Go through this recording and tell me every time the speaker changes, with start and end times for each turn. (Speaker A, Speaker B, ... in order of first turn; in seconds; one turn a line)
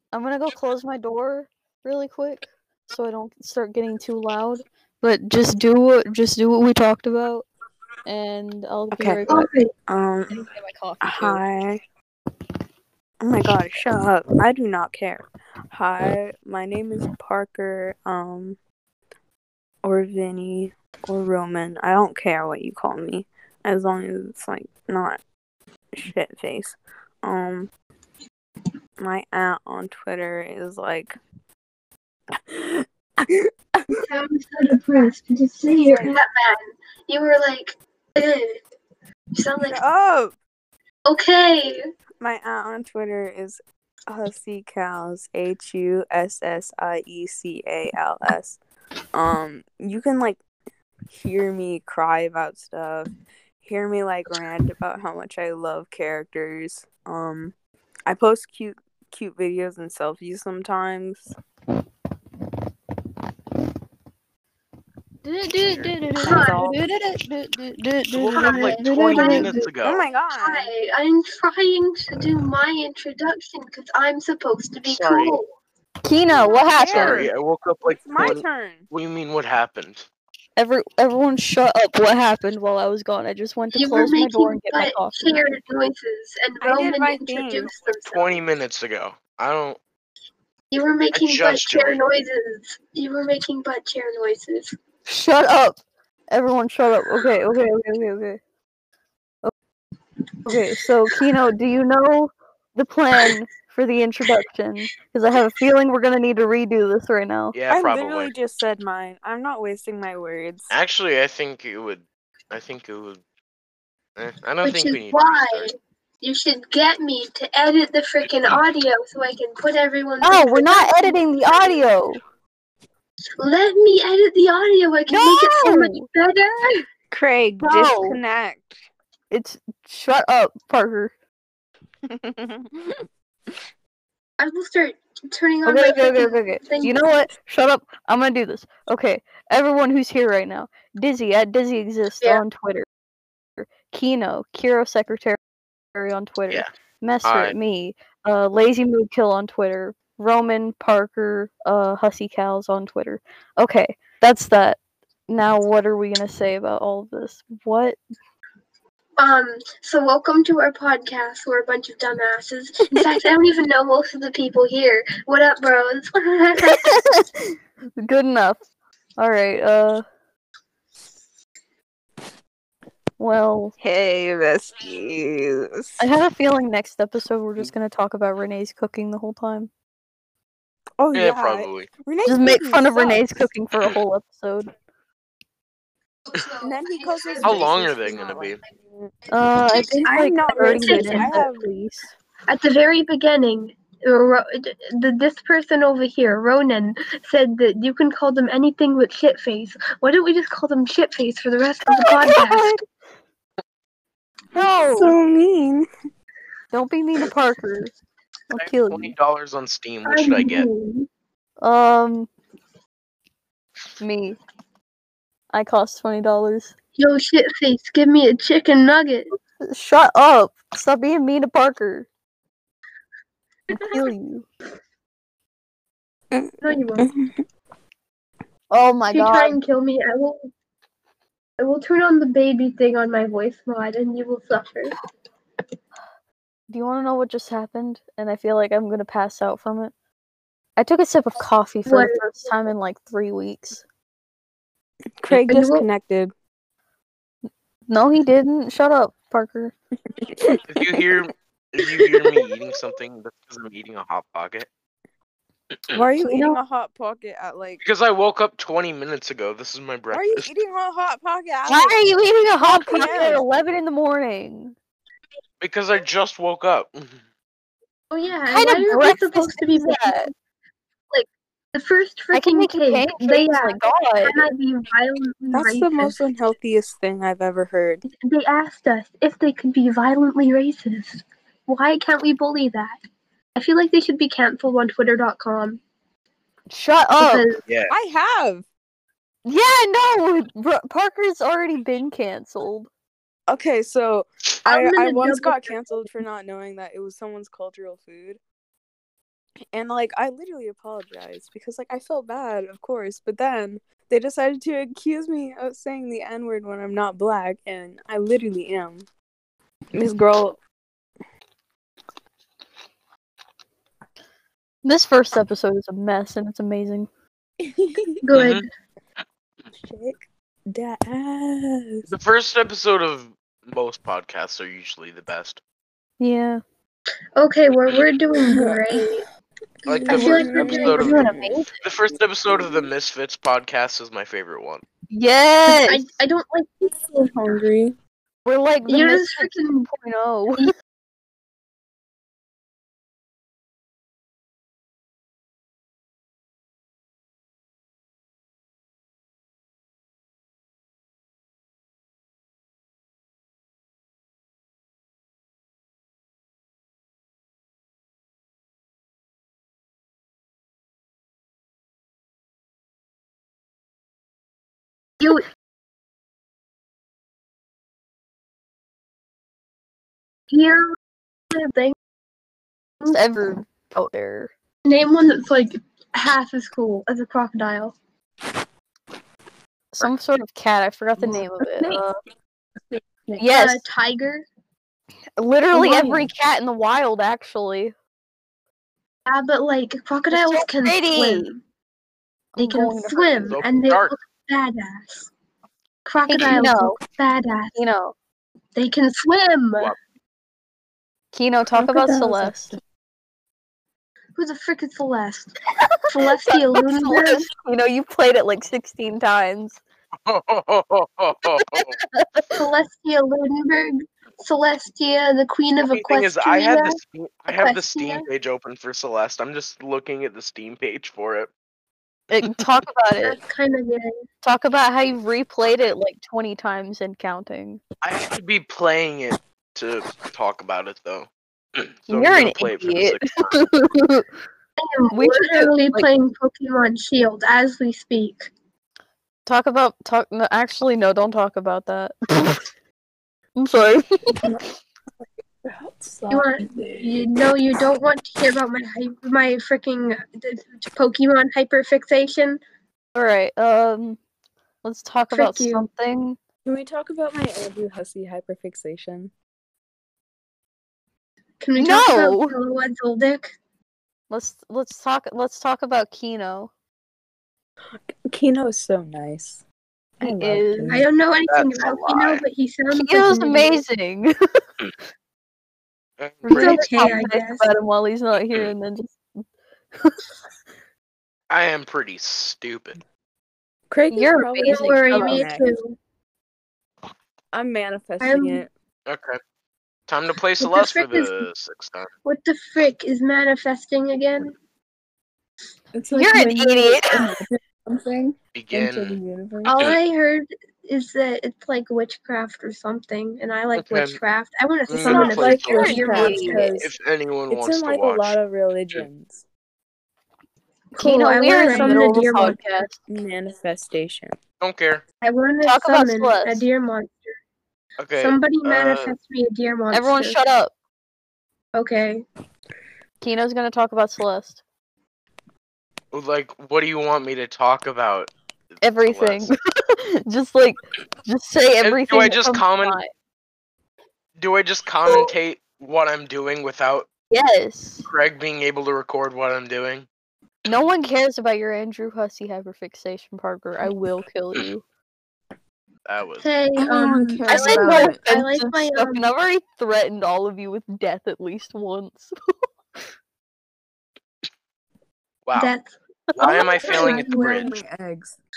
Speaker A: 0.1-7.5
Speaker A: 8.1-9.5
Speaker B: 8.9-9.2
Speaker C: 9.3-9.7
Speaker B: 9.9-10.5
Speaker A: 10.3-11.4
Speaker B: 11.0-11.8
Speaker B: 13.2-18.6
Speaker B: 19.8-25.2
Speaker B: 26.0-27.7
Speaker B: 29.0-31.2
Speaker B: 32.5-34.0
Speaker C: 34.1-38.6
Speaker B: 35.7-36.2
Speaker C: 39.4-39.8
Speaker B: 39.6-40.4
Speaker C: 41.0-41.8
Speaker B: 42.2-48.6
Speaker B: 49.1-50.4
Speaker B: 51.1-53.1
Speaker B: 53.6-57.5
Speaker B: 58.1-61.4
Speaker A: 65.2-69.6
Speaker D: 65.6-65.9
Speaker B: 66.2-66.7
Speaker C: 66.2-66.6
Speaker D: 68.1-70.0
Speaker C: 68.3-69.7
Speaker B: 69.8-70.7
Speaker C: 70.3-75.5
Speaker D: 74.8-75.4
Speaker A: 76.0-77.3
Speaker B: 76.7-77.3
Speaker D: 76.9-80.1
Speaker B: 77.9-78.9
Speaker A: 80.6-85.4
Speaker C: 83.7-88.4
Speaker B: 86.6-87.7
Speaker D: 88.0-89.8
Speaker C: 90.7-94.7
Speaker D: 91.1-92.0
Speaker A: 95.1-98.4
Speaker A: 100.5-107.5
Speaker D: 107.5-108.3
Speaker B: 107.7-110.7
Speaker D: 110.7-113.2
Speaker D: 114.2-115.7
Speaker C: 114.6-121.8
Speaker A: 120.2-122.2
Speaker C: 123.4-126.8
Speaker A: 125.1-126.1
Speaker B: 127.1-128.9
Speaker A: 127.6-128.2
Speaker A: 129.3-131.1
Speaker B: 132.1-132.9
Speaker C: 134.4-137.0
Speaker A: 135.6-142.8
Speaker A: 143.6-145.4
Speaker A: 145.9-158.0
Speaker D: 147.2-147.6
Speaker C: 159.2-166.9
Speaker A: 166.6-168.6
Speaker A: 169.2-170.0
Speaker A: 173.2-173.7
Speaker B: 173.8-176.0
Speaker A: 176.0-179.7
Speaker B: 181.0-183.4
Speaker D: 181.1-181.9
Speaker A: 182.2-184.7
Speaker C: 186.3-187.7
Speaker B: 186.6-189.1
Speaker D: 187.4-188.6
Speaker A: 189.3-192.1
Speaker B: 189.9-191.7
Speaker C: 190.5-191.4
Speaker C: 192.5-202.7
Speaker A: 201.8-202.8
Speaker A: 204.5-205.1
Speaker B: 204.9-205.9
Speaker A: 206.7-208.0
Speaker A: 208.5-209.1
Speaker D: 208.5-210.7
Speaker C: 210.0-211.1
Speaker A: 211.6-212.3
Speaker A: 214.0-214.4
Speaker A: 215.5-216.7
Speaker C: 216.9-219.3
Speaker A: 219.6-222.1
Speaker A: 223.7-224.5
Speaker B: 226.3-227.4
Speaker C: 226.6-227.1
Speaker A: 228.7-229.6
Speaker C: 229.1-230.5
Speaker C: 231.6-234.9
Speaker A: 236.7-239.9
Speaker A: 240.8-243.8
Speaker C: 241.8-242.2
Speaker B: 245.2-246.3
Speaker C: 245.5-245.9
Speaker A: 247.9-249.7
Speaker B: 250.2-251.1
Speaker D: 250.7-254.7
Speaker B: 252.0-252.4
Speaker B: 255.9-257.8
Speaker A: 256.2-256.6
Speaker D: 257.8-260.4
Speaker B: 260.1-262.0
Speaker A: 261.7-264.8
Speaker B: 262.6-263.4
Speaker D: 265.6-267.2
Speaker C: 268.1-270.3
Speaker A: 268.5-270.3
Speaker C: 271.1-276.3
Speaker A: 272.3-274.4
Speaker B: 275.5-278.0
Speaker C: 278.1-283.0
Speaker C: 283.6-285.8
Speaker A: 286.7-287.5
Speaker C: 287.2-287.6
Speaker D: 287.7-287.9
Speaker B: 287.9-288.6
Speaker A: 289.4-292.9
Speaker B: 293.5-298.4
Speaker C: 294.6-296.0
Speaker B: 299.7-309.1
Speaker B: 309.9-310.6
Speaker A: 314.8-317.1
Speaker B: 317.6-318.2
Speaker C: 318.2-318.6
Speaker D: 318.3-318.6
Speaker B: 319.7-322.1
Speaker D: 322.1-325.6
Speaker A: 326.2-326.6
Speaker C: 327.4-329.2
Speaker B: 328.4-329.2
Speaker D: 329.9-334.8
Speaker C: 329.9-331.2
Speaker B: 329.9-331.2
Speaker A: 330.1-331.7
Speaker B: 332.5-332.8
Speaker A: 335.1-336.1
Speaker C: 335.7-336.7
Speaker B: 336.8-338.0
Speaker A: 338.4-340.7
Speaker C: 338.9-339.9
Speaker C: 365.2-365.4
Speaker C: 370.5-370.9
Speaker C: 371.5-371.9
Speaker C: 373.0-373.5
Speaker A: 373.1-374.5
Speaker C: 374.8-377.9
Speaker A: 379.9-382.2
Speaker A: 383.4-383.9
Speaker C: 383.5-384.4
Speaker A: 385.4-387.9
Speaker C: 385.7-386.3
Speaker C: 389.2-391.6
Speaker A: 390.3-391.5
Speaker A: 392.5-393.5
Speaker C: 392.6-395.3
Speaker D: 393.4-394.2
Speaker C: 396.1-397.8
Speaker A: 396.3-397.0
Speaker A: 397.8-398.1
Speaker C: 398.7-399.9
Speaker A: 401.3-402.7
Speaker B: 401.7-402.7
Speaker C: 404.4-405.6
Speaker C: 406.1-407.5
Speaker A: 406.3-409.8
Speaker D: 410.3-412.0
Speaker A: 411.6-412.4
Speaker C: 412.6-417.0
Speaker D: 415.8-421.5
Speaker C: 417.5-418.3
Speaker A: 422.3-423.4
Speaker C: 423.2-424.1
Speaker A: 424.4-427.8
Speaker D: 428.0-433.5
Speaker A: 432.1-434.2
Speaker C: 434.8-438.5
Speaker A: 435.1-436.1
Speaker A: 439.4-442.6
Speaker A: 443.6-444.0
Speaker B: 445.6-447.2
Speaker C: 446.3-452.6
Speaker A: 453.1-454.2
Speaker A: 454.8-456.4
Speaker C: 455.3-455.9
Speaker B: 456.6-459.3
Speaker C: 461.6-463.5
Speaker A: 461.8-462.6
Speaker A: 464.3-466.7
Speaker B: 468.1-469.6
Speaker B: 470.2-471.1
Speaker A: 470.2-471.0
Speaker C: 470.9-473.8
Speaker D: 471.5-472.4
Speaker A: 472.9-474.3
Speaker D: 476.2-476.8
Speaker B: 476.4-477.3
Speaker C: 476.5-477.7
Speaker A: 476.5-479.2
Speaker D: 481.5-483.0
Speaker B: 483.9-485.8
Speaker A: 484.1-485.4
Speaker C: 484.6-486.0
Speaker B: 487.5-488.7
Speaker C: 488.2-488.6
Speaker D: 489.1-489.4
Speaker D: 490.1-492.1
Speaker C: 490.6-491.4
Speaker C: 492.2-494.5
Speaker B: 495.9-499.8
Speaker A: 496.1-497.3
Speaker D: 498.5-499.2
Speaker C: 499.6-506.9
Speaker D: 503.7-504.2
Speaker D: 504.9-508.4
Speaker B: 505.0-506.9
Speaker A: 505.8-506.7
Speaker B: 507.5-509.4
Speaker C: 510.9-512.6
Speaker A: 510.9-513.0
Speaker B: 511.7-512.5
Speaker B: 513.1-514.4
Speaker D: 514.6-515.0
Speaker C: 515.2-517.4
Speaker A: 515.6-516.6
Speaker D: 518.0-519.1
Speaker C: 518.1-520.4
Speaker A: 519.9-520.7
Speaker C: 521.7-522.2
Speaker A: 523.2-524.6
Speaker D: 526.1-529.5
Speaker A: 528.8-533.1
Speaker D: 531.8-533.0
Speaker D: 534.4-537.1
Speaker A: 537.3-538.1
Speaker D: 538.0-540.1
Speaker A: 540.6-544.8
Speaker D: 546.0-546.5
Speaker C: 546.4-549.3
Speaker B: 546.8-548.3
Speaker A: 547.5-552.3
Speaker D: 555.5-555.7
Speaker C: 555.5-557.7
Speaker A: 556.3-556.6
Speaker D: 556.4-557.7
Speaker B: 556.8-558.4